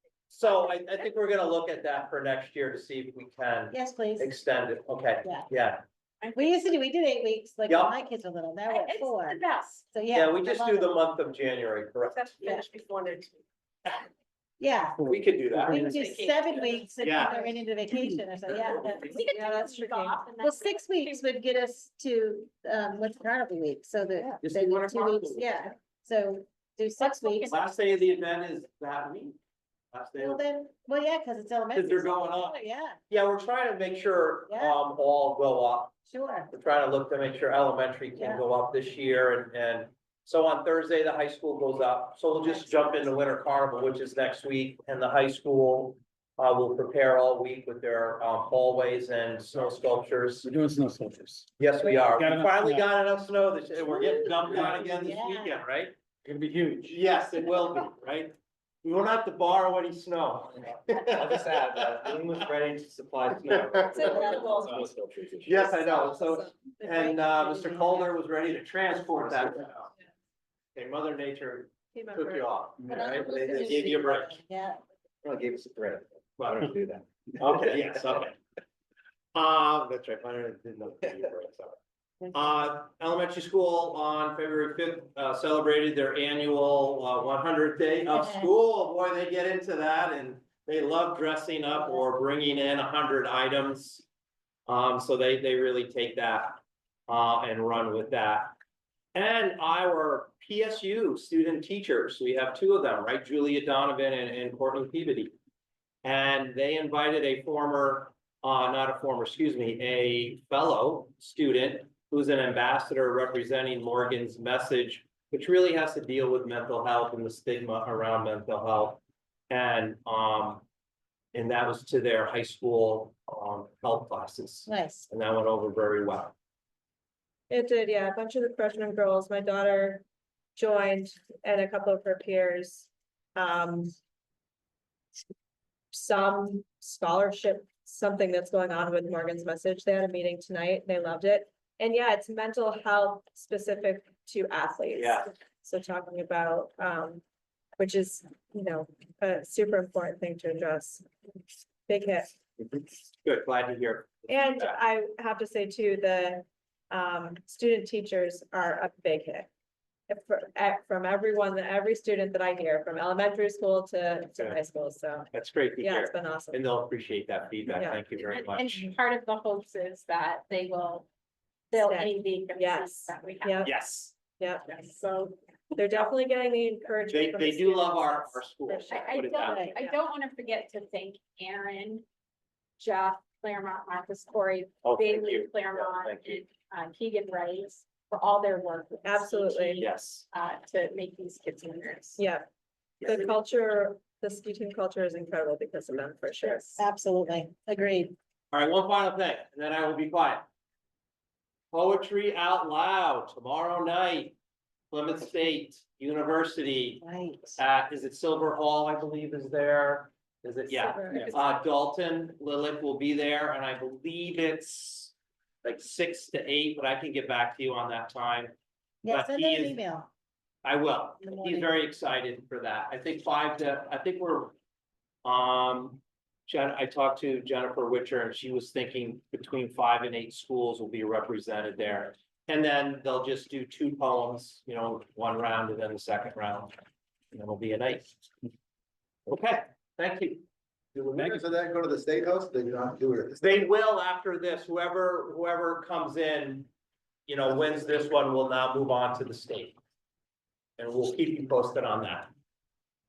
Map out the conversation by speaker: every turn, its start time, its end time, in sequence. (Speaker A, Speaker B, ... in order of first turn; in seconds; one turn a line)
Speaker A: 0.3-5.8
Speaker B: 3.7-4.4
Speaker C: 6.2-6.7
Speaker B: 6.3-10.9
Speaker A: 7.7-8.1
Speaker C: 8.7-9.9
Speaker A: 10.1-12.4
Speaker B: 12.4-12.7
Speaker D: 12.4-13.3
Speaker B: 14.6-19.2
Speaker E: 15.0-16.1
Speaker A: 15.1-15.9
Speaker C: 15.9-17.2
Speaker A: 17.0-17.6
Speaker C: 18.8-21.2
Speaker D: 19.2-20.2
Speaker B: 20.4-27.6
Speaker A: 24.2-25.6
Speaker C: 27.0-27.6
Speaker A: 27.5-29.4
Speaker A: 29.9-30.4
Speaker B: 30.2-33.0
Speaker A: 31.7-36.0
Speaker B: 34.5-34.8
Speaker B: 36.1-36.5
Speaker A: 36.5-50.5
Speaker B: 38.2-38.4
Speaker B: 42.4-43.1
Speaker E: 50.4-52.9
Speaker A: 51.6-56.0
Speaker E: 54.4-54.8
Speaker B: 54.8-55.6
Speaker E: 56.2-57.0
Speaker A: 56.9-64.7
Speaker F: 61.1-62.5
Speaker F: 63.5-65.6
Speaker D: 63.9-64.8
Speaker A: 65.4-69.9
Speaker D: 65.5-66.5
Speaker B: 66.8-68.2
Speaker A: 70.8-74.4
Speaker D: 71.9-72.9
Speaker B: 72.9-74.8
Speaker F: 73.5-73.8
Speaker F: 75.2-75.7
Speaker A: 75.6-78.4
Speaker F: 76.7-77.0
Speaker A: 79.3-81.8
Speaker A: 82.3-94.0
Speaker B: 88.1-88.5
Speaker A: 94.7-98.6
Speaker A: 99.1-105.3
Speaker A: 106.0-120.6
Speaker A: 121.3-126.3
Speaker B: 124.7-125.1
Speaker D: 127.5-130.1
Speaker D: 130.6-133.9
Speaker D: 135.9-147.2
Speaker A: 144.9-145.3
Speaker D: 147.8-151.1
Speaker D: 151.9-152.4
Speaker A: 153.2-154.8
Speaker D: 154.3-159.5
Speaker D: 160.1-166.6
Speaker A: 165.3-168.8
Speaker D: 167.7-168.0
Speaker C: 168.2-171.1
Speaker C: 171.7-173.7
Speaker D: 171.7-173.7
Speaker A: 173.6-174.1
Speaker D: 174.4-174.8
Speaker C: 174.7-175.3
Speaker D: 175.8-179.7
Speaker A: 177.1-180.0
Speaker C: 178.9-182.1
Speaker C: 182.8-192.2
Speaker A: 184.8-186.4
Speaker D: 189.1-189.8
Speaker A: 189.8-190.3
Speaker D: 192.2-192.5
Speaker D: 193.0-196.8
Speaker B: 196.5-198.2
Speaker A: 198.5-200.5
Speaker A: 201.7-204.3
Speaker A: 204.9-207.0
Speaker B: 207.0-207.6
Speaker A: 207.6-218.5
Speaker D: 210.8-211.4
Speaker B: 219.0-220.1
Speaker A: 219.1-219.8
Speaker A: 220.6-224.5
Speaker B: 221.2-221.7
Speaker A: 225.2-236.7
Speaker A: 237.3-238.2
Speaker A: 239.3-240.4
Speaker A: 241.0-241.3
Speaker G: 241.1-243.5
Speaker A: 243.4-246.7
Speaker A: 247.3-249.8
Speaker A: 250.8-252.3